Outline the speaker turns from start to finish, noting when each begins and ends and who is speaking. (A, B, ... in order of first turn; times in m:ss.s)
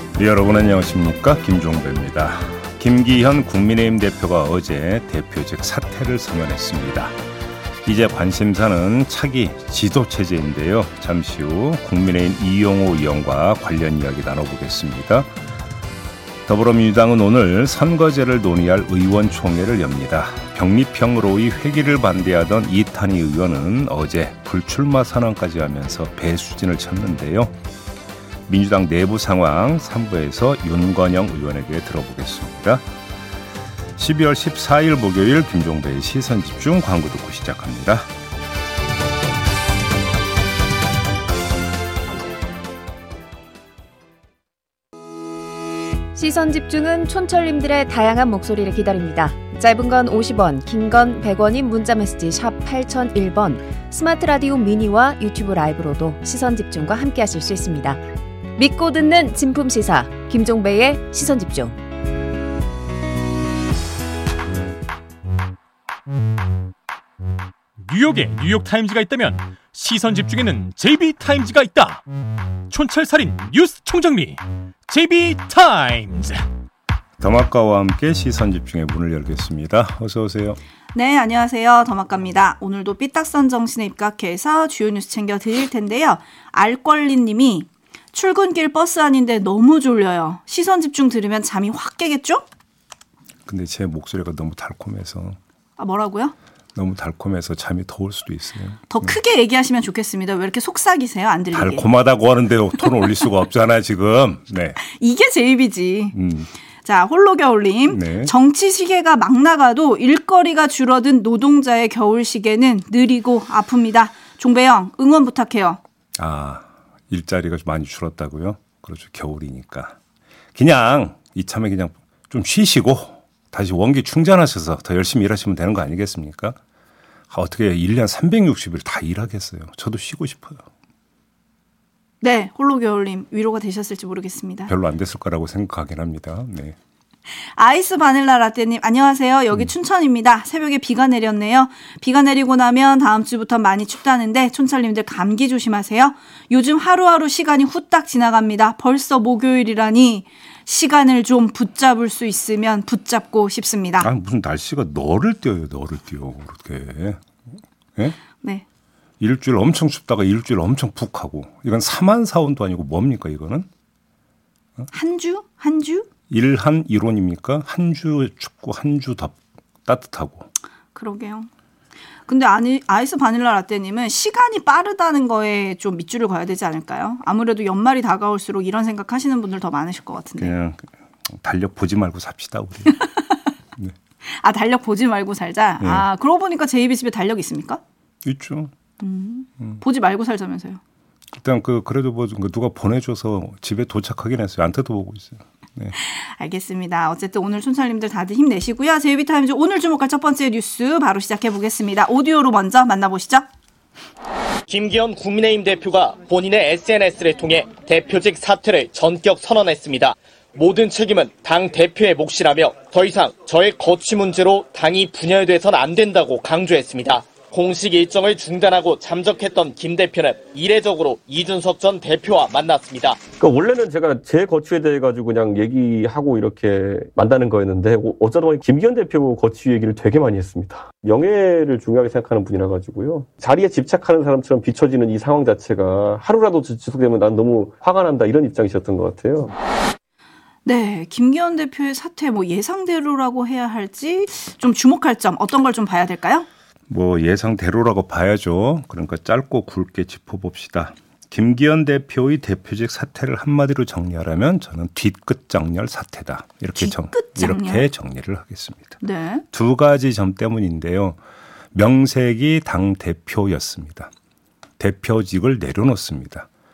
0:00.2-0:07.1 A
0:07.8-0:15.3 A
0:16.5-0:27.6 A
0:28.5-0:32.8 A
0:34.0-0:38.1 A
0:46.2-0:58.0 B
0:58.6-1:01.8 B
1:07.8-1:12.0 C
1:12.7-1:16.4 C
1:17.2-1:20.6 A
1:20.9-1:32.4 D
1:33.5-1:35.4 A
1:35.8-1:36.3 D
1:36.8-1:39.1 A
1:38.9-1:41.9 D
1:41.5-1:44.8 A
1:44.8-1:46.2 D
1:46.1-1:46.5 A
1:46.8-1:55.8 D
1:47.9-1:48.3 A
1:56.2-2:00.0 A
2:00.6-2:06.6 A
2:07.3-2:10.6 A
2:12.2-2:14.7 D
2:14.7-2:16.8 A
2:17.6-2:34.1 D
2:34.0-2:37.2 A
2:39.2-2:43.7 A
2:44.9-2:46.1 D
2:46.3-2:50.5 A
2:51.0-2:51.5 D
2:52.3-3:00.5 D
3:00.4-3:03.0 A
3:04.4-3:07.8 D
3:05.8-3:06.1 A
3:08.2-3:08.7 A
3:09.0-3:10.8 D
3:11.3-3:16.0 A
3:16.0-3:23.5 D
3:24.7-3:43.2 E
3:43.4-3:59.5 F
4:00.6-4:06.5 D
4:06.9-4:19.0 A
4:16.8-4:17.9 D
4:19.0-4:19.4 D
4:19.5-4:21.2 A
4:21.7-4:24.1 A
4:24.8-4:26.5 A